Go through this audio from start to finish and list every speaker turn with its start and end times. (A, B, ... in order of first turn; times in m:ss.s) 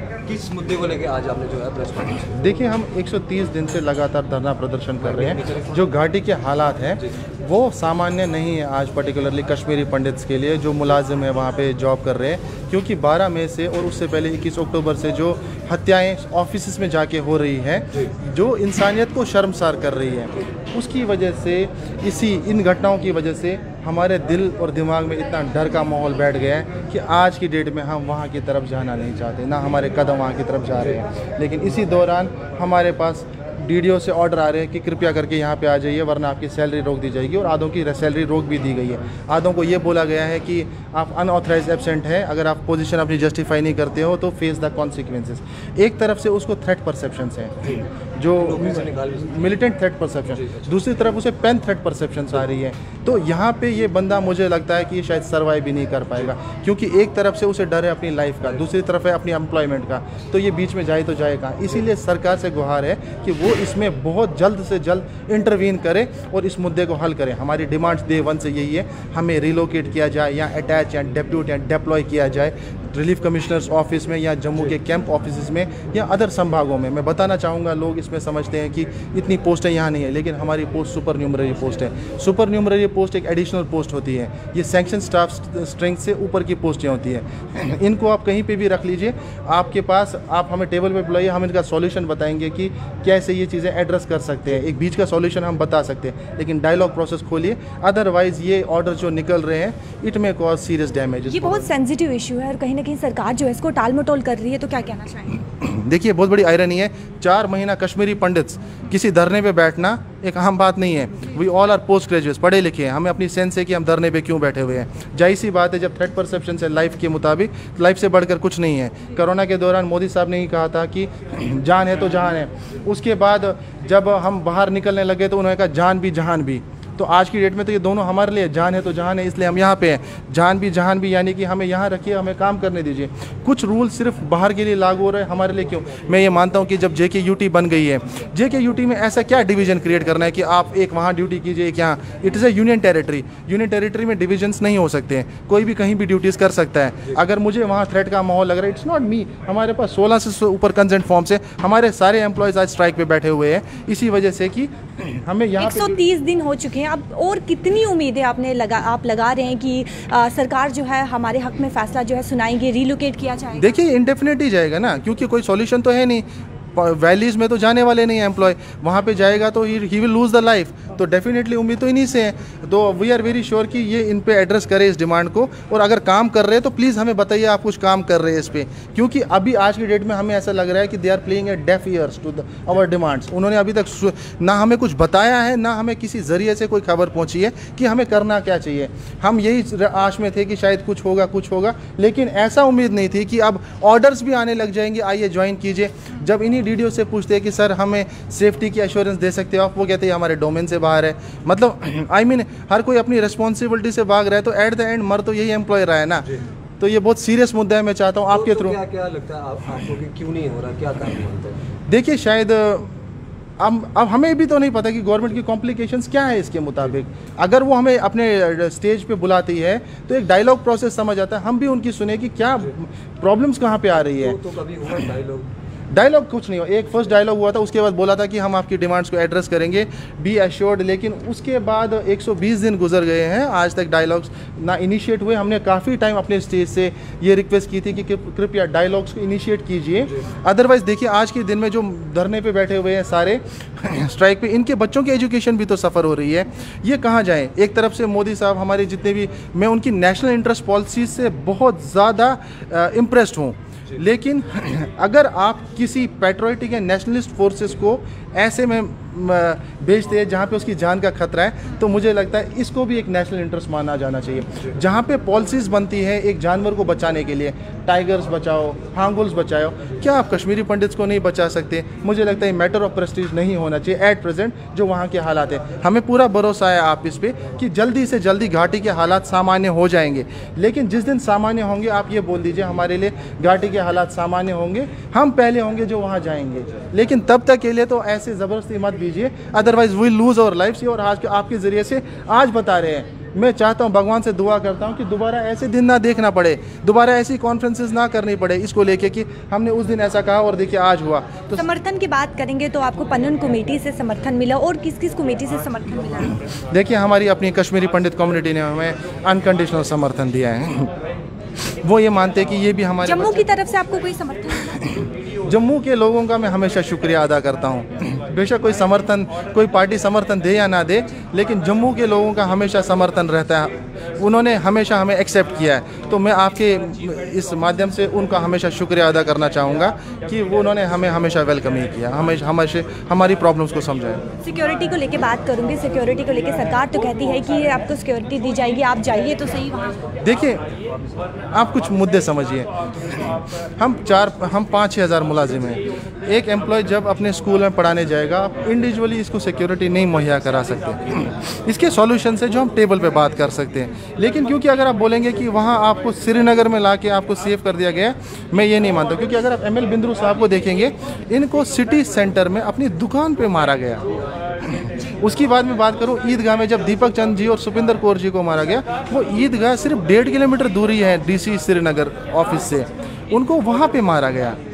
0:00.2-0:02.4 A
0:02.3-1:41.7 B
0:05.0-0:05.7 A
0:48.4-0:49.4 A
0:50.4-0:50.7 A
1:41.2-1:45.4 C
1:45.5-2:36.0 B
2:35.6-2:43.7 C
2:43.6-3:26.2 B
3:26.8-3:28.8 B
3:28.3-3:31.6 A
3:31.9-3:32.9 B
3:33.6-3:44.4 B
3:44.2-3:45.5 A
3:45.9-5:01.6 B
5:01.6-5:06.4 C
5:06.7-5:10.9 B
5:11.8-5:13.4 B
5:13.0-5:15.0 C
5:14.9-5:34.2 B
5:34.4-5:40.0 C
5:40.2-5:40.6 B
5:41.5-6:04.0 B
6:04.6-6:14.6 B